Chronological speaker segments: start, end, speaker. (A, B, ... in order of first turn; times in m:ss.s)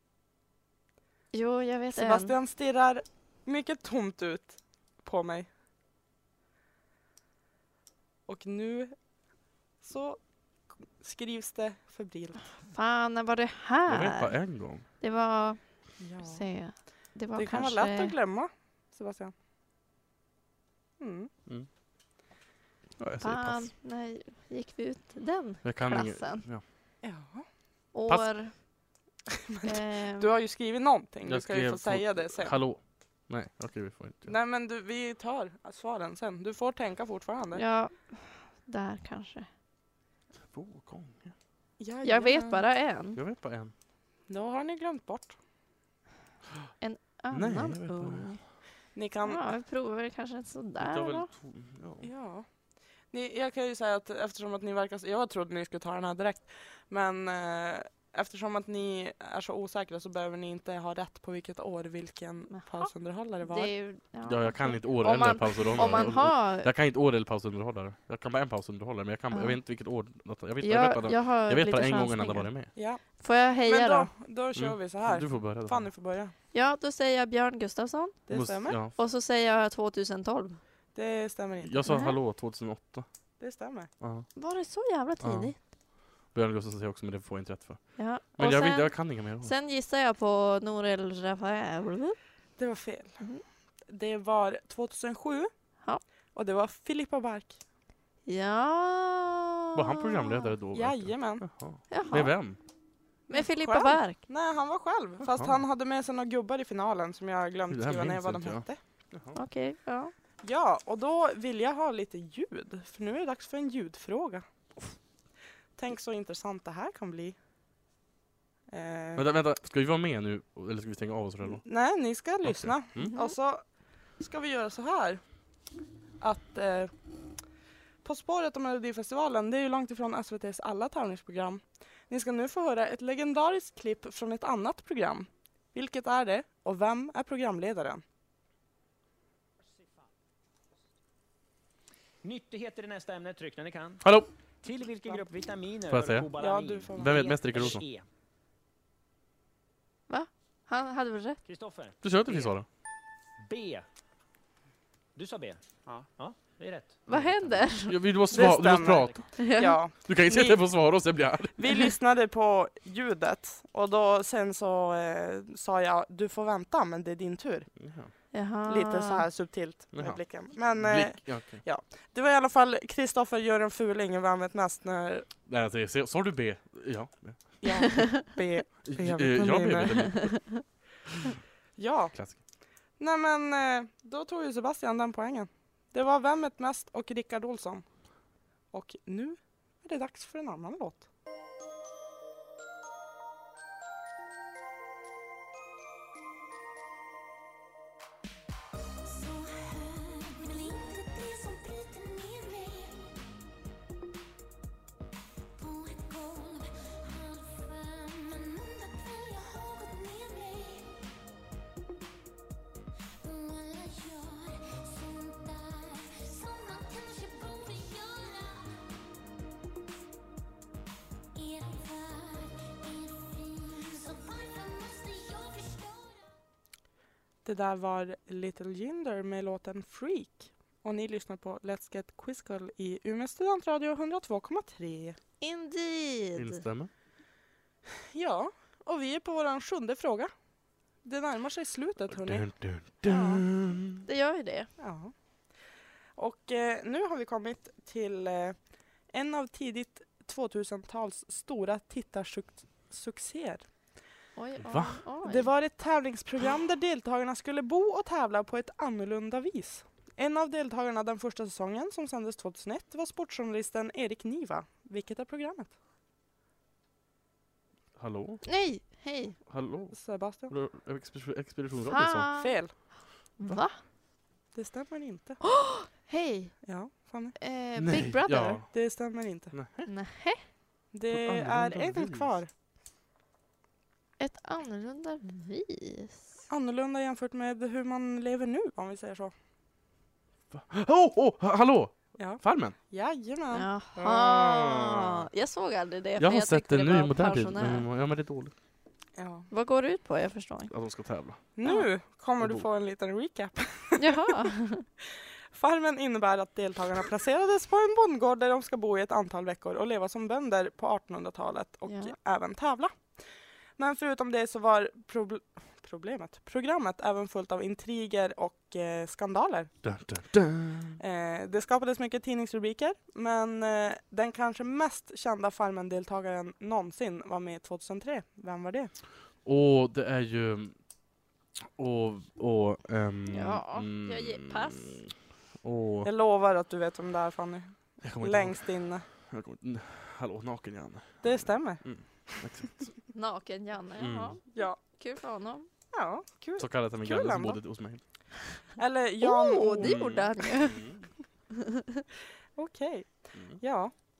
0:01.3-0:02.3 A
0:01.9-0:05.5 B
0:08.3-0:08.9 B
0:09.8-0:10.2 B
0:11.0-0:12.5 B
0:12.6-0:14.3 A
0:13.9-0:14.8 C
0:15.0-0:15.6 A
0:16.0-0:16.4 B
0:16.2-0:18.1 A
0:17.3-0:19.3 B
0:21.0-0:21.3 B
0:23.0-0:23.7 C
0:23.2-0:26.4 A
0:25.6-0:26.6 C
0:27.0-0:27.5 B
0:27.9-0:28.5 A
0:29.5-0:32.6 B
0:29.6-0:30.3 A
0:31.2-0:34.3 C
0:34.2-0:37.6 B
0:37.5-0:39.5 A
0:40.5-0:41.3 C
0:41.8-0:42.6 B
0:42.0-0:43.2 A
0:43.1-0:43.7 C
0:44.3-0:45.4 B
0:46.8-0:48.4 A
0:47.3-0:48.4 C
0:48.9-0:49.4 B
0:49.2-0:51.3 A
0:50.8-0:52.1 C
0:52.0-0:52.4 B
0:53.1-1:03.7 B
1:02.5-1:02.9 A
1:03.4-1:06.7 A
1:04.2-1:12.7 C
1:05.8-1:06.1 B
1:09.3-1:09.6 A
1:10.6-1:12.7 A
1:12.7-1:13.0 B
1:13.2-1:14.1 A
1:13.6-1:16.3 B
1:14.6-1:15.9 C
1:16.5-1:18.2 A
1:18.3-1:18.8 B
1:18.3-1:18.9 C
1:18.9-1:20.6 A
1:20.9-1:21.9 B
1:21.6-1:23.1 C
1:21.8-1:22.2 A
1:23.4-1:23.9 B
1:24.0-1:24.3 C
1:24.4-1:25.5 A
1:25.2-1:25.5 C
1:26.3-1:29.5 C
1:28.0-1:32.2 A
1:32.6-1:33.2 B
1:33.9-1:35.5 B
1:36.3-1:37.6 B
1:38.2-1:40.5 A
1:39.7-1:42.6 C
1:40.7-1:41.4 B
1:41.9-1:42.3 A
1:43.3-1:44.2 A
1:43.3-1:48.8 B
1:47.7-1:49.4 C
1:49.3-1:50.1 A
1:50.4-1:54.4 B
1:55.8-1:57.4 B
1:58.7-1:59.3 B
1:59.2-2:01.6 C
2:01.4-2:03.6 B
2:02.4-2:03.1 C
2:03.0-2:03.3 A
2:04.2-2:05.2 B
2:06.2-2:06.9 B
2:08.0-2:18.0 B
2:22.2-2:24.0 D
2:24.0-2:24.3 C
2:24.6-2:28.0 D
2:25.9-2:26.3 C
2:26.4-2:27.3 B
2:27.0-2:27.8 C
2:30.1-2:31.4 A
2:31.4-2:32.5 D
2:32.0-2:32.6 C
2:33.4-2:33.8 D
2:35.2-2:37.8 D
2:37.0-2:38.0 A
2:37.8-2:41.9 C
2:38.3-2:40.6 B
2:39.4-2:39.8 A
2:41.5-2:47.7 B
2:47.8-2:48.1 C
2:48.3-2:49.2 A
2:48.7-2:55.3 B
2:49.9-2:51.6 C
2:55.4-2:58.0 C
2:57.6-3:00.2 B
2:58.8-3:00.6 C
3:01.8-3:02.2 B
3:03.0-3:07.8 B
3:08.7-3:11.0 B
3:19.0-3:23.1 E
3:25.6-3:31.0 E
3:33.2-3:38.8 E
3:41.3-3:46.3 E
3:47.4-3:55.2 B
3:55.4-3:56.6 A
3:56.4-3:56.9 C
3:58.1-4:00.3 B
4:01.0-4:02.5 B
4:02.1-4:04.0 C
4:03.0-4:03.4 B
4:04.0-4:04.7 A
4:04.8-4:05.1 B
4:06.2-4:08.6 B
4:09.1-4:13.6 B
4:14.4-4:15.5 A
4:14.6-4:15.0 C
4:15.2-4:25.7 B
4:28.0-4:28.4 C
4:28.4-4:29.4 A
4:29.5-4:32.3 C
4:29.9-4:30.5 B
4:31.9-4:32.9 A
4:32.4-4:32.7 B
4:33.4-4:33.8 A
4:34.5-4:35.4 B
4:35.4-4:36.6 A
4:36.6-4:37.4 B
4:37.4-4:38.6 A
4:37.8-4:38.7 C
4:38.7-4:39.5 B
4:39.5-4:39.9 C
4:39.9-4:40.4 A
4:40.9-4:42.5 B
4:41.1-4:42.4 C
4:44.2-4:46.2 A
4:46.5-4:49.3 B
4:50.5-4:52.8 C
4:52.2-4:54.0 B
4:53.5-4:57.9 A
4:54.0-4:55.3 C
4:56.2-4:58.5 C
4:59.2-4:59.5 B
4:59.5-5:00.7 A
5:00.7-5:01.4 C
5:01.6-5:04.2 B
5:02.4-5:02.6 C
5:04.0-5:04.9 A
5:05.5-5:13.2 B
5:11.9-5:12.1 A
5:13.8-5:19.7 B
5:19.8-5:21.0 C
5:21.0-5:28.9 B
5:29.4-5:30.8 C
5:31.6-5:36.1 C
5:33.3-5:35.0 A
5:36.0-5:39.0 B
5:38.0-5:43.0 C
5:41.2-5:41.8 B
5:43.1-5:45.7 A
5:44.0-5:44.4 C
5:44.5-5:44.8 B
5:45.9-5:47.6 B
5:46.6-5:48.0 C
5:48.8-5:50.3 B
5:49.2-5:50.9 A
5:49.8-5:51.0 C
5:51.5-5:52.0 A
5:52.6-5:53.9 B